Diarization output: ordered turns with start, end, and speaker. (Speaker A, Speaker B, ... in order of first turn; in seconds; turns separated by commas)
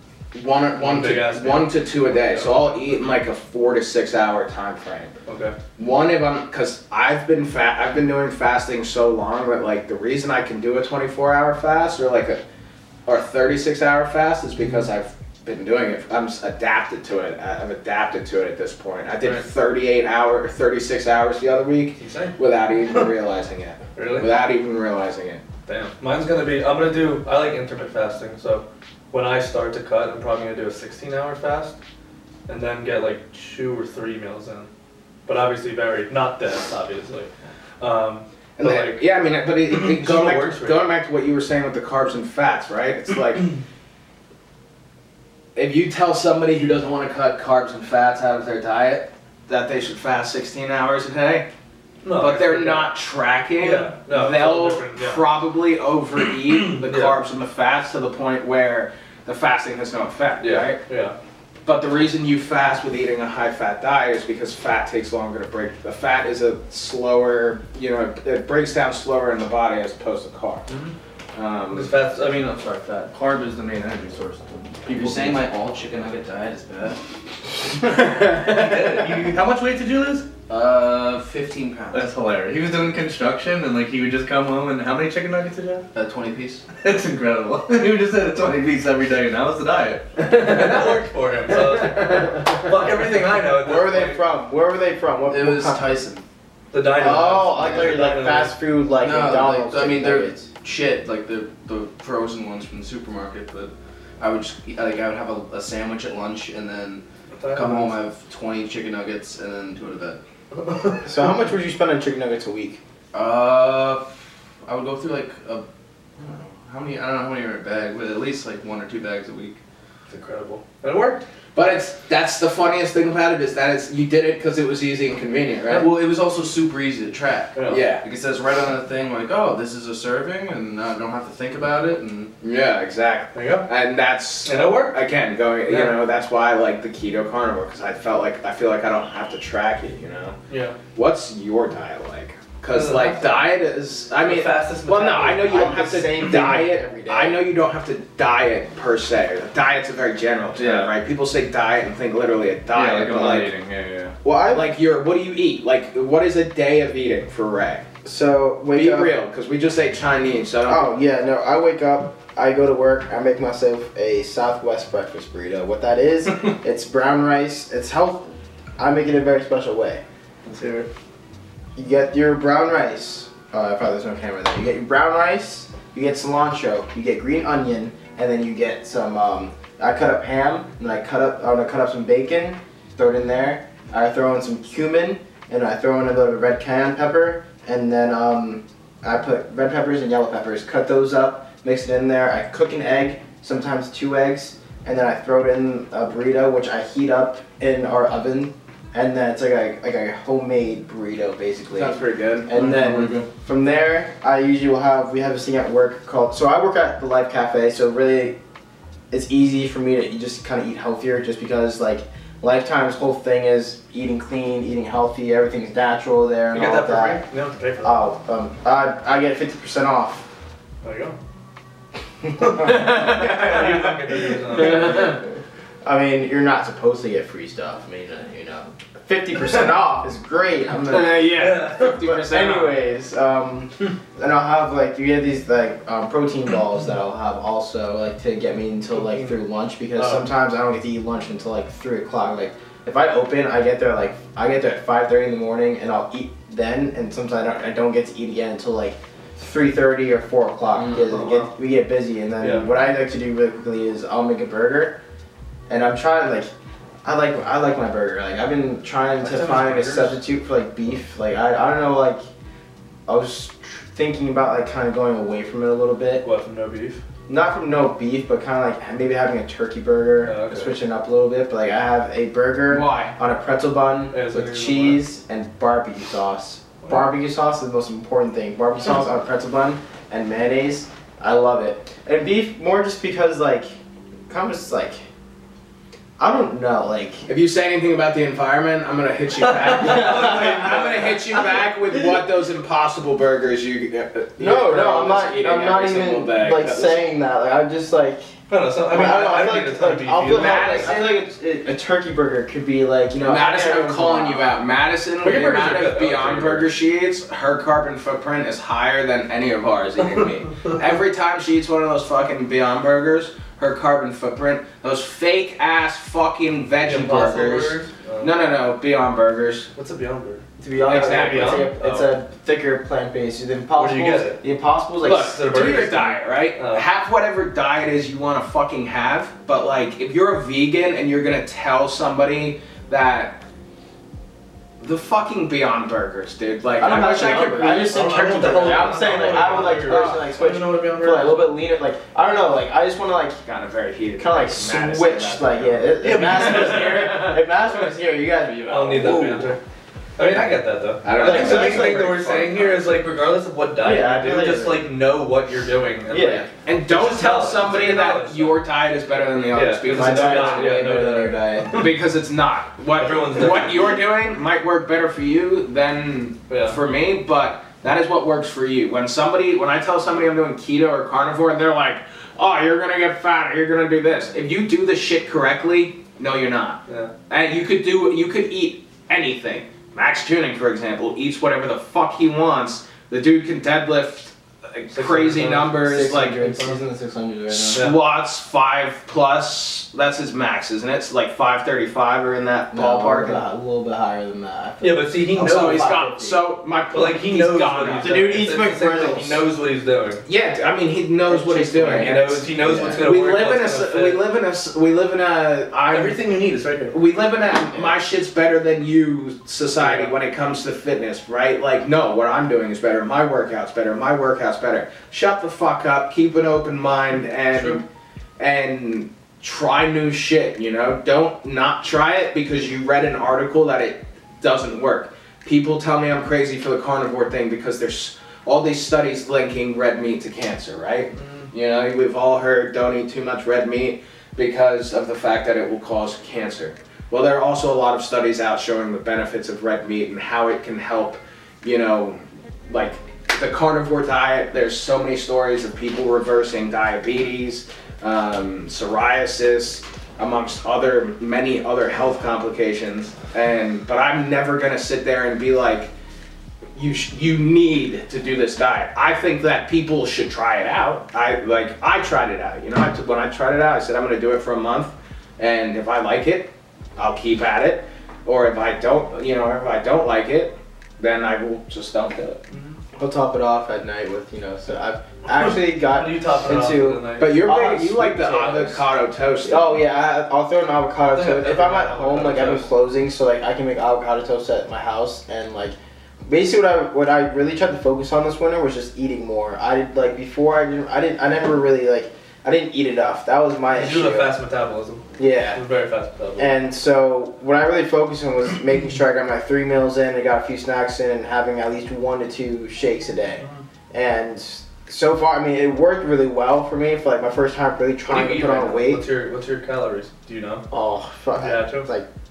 Speaker A: 0.3-5.1, Speaker B: 0.8-2.6, Speaker B: 5.3-5.5, Speaker A: 5.8-12.4, Speaker A: 13.1-25.4, Speaker B: 22.0-22.4, Speaker B: 24.0-24.3, Speaker B: 25.7-31.8, Speaker B: 32.5-34.7, Speaker B: 35.3-39.0, Speaker A: 38.6-43.5, Speaker B: 39.7-40.8, Speaker A: 45.5-51.5, Speaker B: 52.0-52.9, Speaker A: 52.1-60.8, Speaker B: 53.6-55.2, Speaker B: 56.7-57.1, Speaker B: 60.4-61.1, Speaker A: 61.6-70.7, Speaker A: 71.3-72.0, Speaker B: 71.7-72.1, Speaker C: 71.9-75.4, Speaker D: 74.9-77.0, Speaker A: 78.1-78.4, Speaker C: 78.4-80.3, Speaker D: 80.5-82.1, Speaker C: 81.9-85.9, Speaker D: 85.9-86.6, Speaker C: 86.8-90.7, Speaker B: 90.3-94.2, Speaker E: 93.6-96.0, Speaker D: 95.3-96.2, Speaker B: 96.7-98.5, Speaker E: 96.9-100.5, Speaker D: 99.0-110.2, Speaker B: 107.4-107.9, Speaker B: 110.6-111.0, Speaker E: 111.0-112.8, Speaker D: 113.1-114.1, Speaker D: 114.6-115.7, Speaker D: 116.2-119.6, Speaker B: 120.1-121.2, Speaker A: 121.5-125.9, Speaker D: 125.7-132.3, Speaker B: 127.5-127.8, Speaker A: 127.7-128.0, Speaker A: 132.4-140.4, Speaker B: 133.3-133.7, Speaker B: 134.4-135.0, Speaker B: 135.7-135.9, Speaker B: 140.5-140.8, Speaker A: 140.9-153.5, Speaker B: 142.7-143.5, Speaker B: 144.2-145.8, Speaker E: 145.5-147.4, Speaker C: 150.6-150.9, Speaker C: 152.7-154.2, Speaker E: 154.2-154.7, Speaker A: 154.5-157.8, Speaker E: 158.0-159.1, Speaker A: 158.7-161.0, Speaker E: 160.7-170.0, Speaker C: 170.5-170.9, Speaker E: 171.8-208.4, Speaker A: 201.7-202.5, Speaker C: 202.6-203.2, Speaker E: 209.1-217.2, Speaker B: 216.5-218.0, Speaker E: 217.8-220.3, Speaker B: 220.8-221.2, Speaker E: 222.2-225.2, Speaker B: 222.6-225.2, Speaker A: 222.7-223.5, Speaker A: 224.6-224.8, Speaker E: 225.8-231.3, Speaker A: 230.9-232.8, Speaker B: 231.4-231.9, Speaker E: 231.8-255.0, Speaker B: 240.0-240.3, Speaker B: 251.0-251.5, Speaker B: 252.4-252.7, Speaker E: 255.7-256.5, Speaker E: 257.0-262.2, Speaker B: 259.2-260.1, Speaker E: 263.1-266.2, Speaker B: 266.2-267.0, Speaker E: 267.3-283.8, Speaker B: 270.3-270.7, Speaker A: 272.7-273.1, Speaker B: 274.1-275.0, Speaker E: 284.3-285.0, Speaker E: 286.2-287.2, Speaker A: 287.3-297.1, Speaker B: 289.4-291.0, Speaker E: 289.8-290.8, Speaker E: 294.4-298.3, Speaker B: 298.5-301.1, Speaker E: 298.9-304.4, Speaker A: 300.2-301.1, Speaker A: 303.1-319.7, Speaker B: 305.2-306.7, Speaker B: 316.8-318.3, Speaker B: 319.8-322.0, Speaker E: 320.6-325.4, Speaker A: 320.8-322.1, Speaker B: 323.8-324.4, Speaker A: 325.0-333.4, Speaker B: 325.1-326.9, Speaker A: 334.8-340.3, Speaker E: 336.8-343.4, Speaker B: 336.9-341.5, Speaker A: 343.4-347.1, Speaker E: 344.2-349.5, Speaker B: 346.0-347.3, Speaker B: 348.7-349.6, Speaker B: 350.2-358.6, Speaker A: 351.0-353.1, Speaker E: 351.2-352.2, Speaker E: 353.8-354.9, Speaker E: 356.1-356.5, Speaker A: 356.6-360.8, Speaker B: 359.5-361.9, Speaker E: 359.8-361.9, Speaker A: 361.7-386.4, Speaker B: 363.0-364.0, Speaker B: 366.5-366.8, Speaker B: 376.9-377.1, Speaker B: 384.9-385.8, Speaker E: 385.8-387.8, Speaker B: 386.3-386.8, Speaker A: 387.5-393.4, Speaker B: 387.7-388.0, Speaker E: 392.7-396.4, Speaker B: 394.8-395.9, Speaker A: 395.4-398.3, Speaker B: 396.9-400.2, Speaker E: 398.0-399.5, Speaker A: 400.2-406.2, Speaker E: 401.3-402.1, Speaker B: 401.5-404.2, Speaker E: 402.6-403.0, Speaker B: 405.9-406.9, Speaker A: 406.9-417.9, Speaker B: 409.8-410.1, Speaker A: 418.4-455.9, Speaker B: 431.2-431.5, Speaker A: 456.8-472.4, Speaker B: 472.5-472.8, Speaker E: 473.0-478.8, Speaker B: 475.3-477.4, Speaker A: 477.2-479.8, Speaker E: 479.4-494.3, Speaker B: 481.1-482.7, Speaker B: 493.7-495.0, Speaker E: 495.2-495.6, Speaker B: 495.6-496.6, Speaker E: 496.4-509.0, Speaker B: 508.1-510.7, Speaker E: 510.7-512.1, Speaker B: 511.4-511.9